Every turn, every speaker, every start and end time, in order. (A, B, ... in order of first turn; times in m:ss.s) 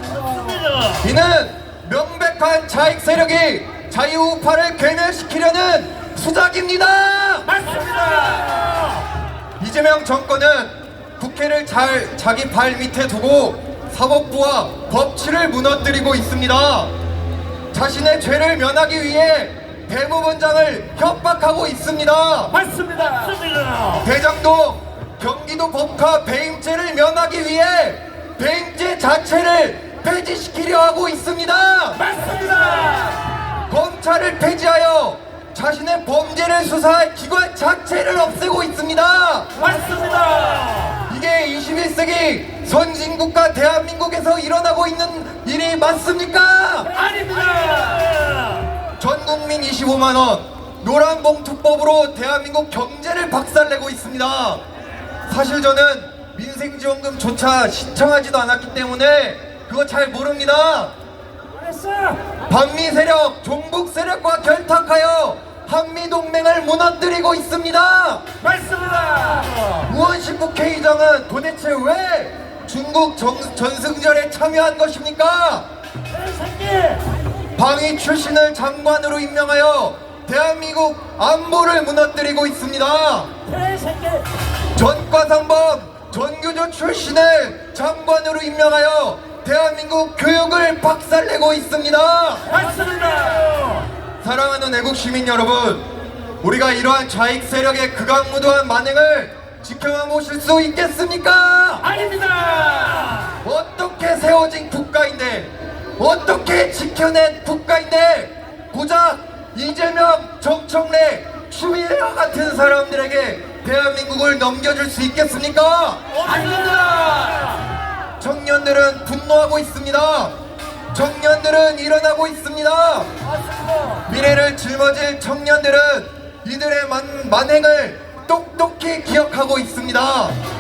0:00.4-0:00.9 A
0:01.0-0:07.5 B
0:07.5-0:09.0 A
0:09.6-0:16.9 B
0:17.7-0:22.6 B
0:22.5-0:24.0 A
0:24.0-0:32.1 B
0:32.0-0:33.3 A
0:33.7-0:39.6 B
0:39.6-0:41.0 A
0:41.0-0:47.0 B
0:46.9-0:48.6 A
0:49.0-0:54.6 B
0:55.3-1:00.9 B
1:01.7-1:02.2 A
1:02.5-1:08.3 B
1:08.4-1:09.8 A
1:09.8-1:15.6 B
1:16.2-1:17.0 A
1:17.6-1:23.4 B
1:23.5-1:24.3 A
1:24.7-1:32.5 B
1:32.5-1:33.9 A
1:34.2-1:35.8 B
1:36.4-1:41.9 B
1:41.9-1:43.3 A
1:43.4-1:56.1 B
1:56.2-1:57.6 A
1:58.2-2:00.3 B
2:00.9-2:03.1 B
2:04.0-2:10.3 B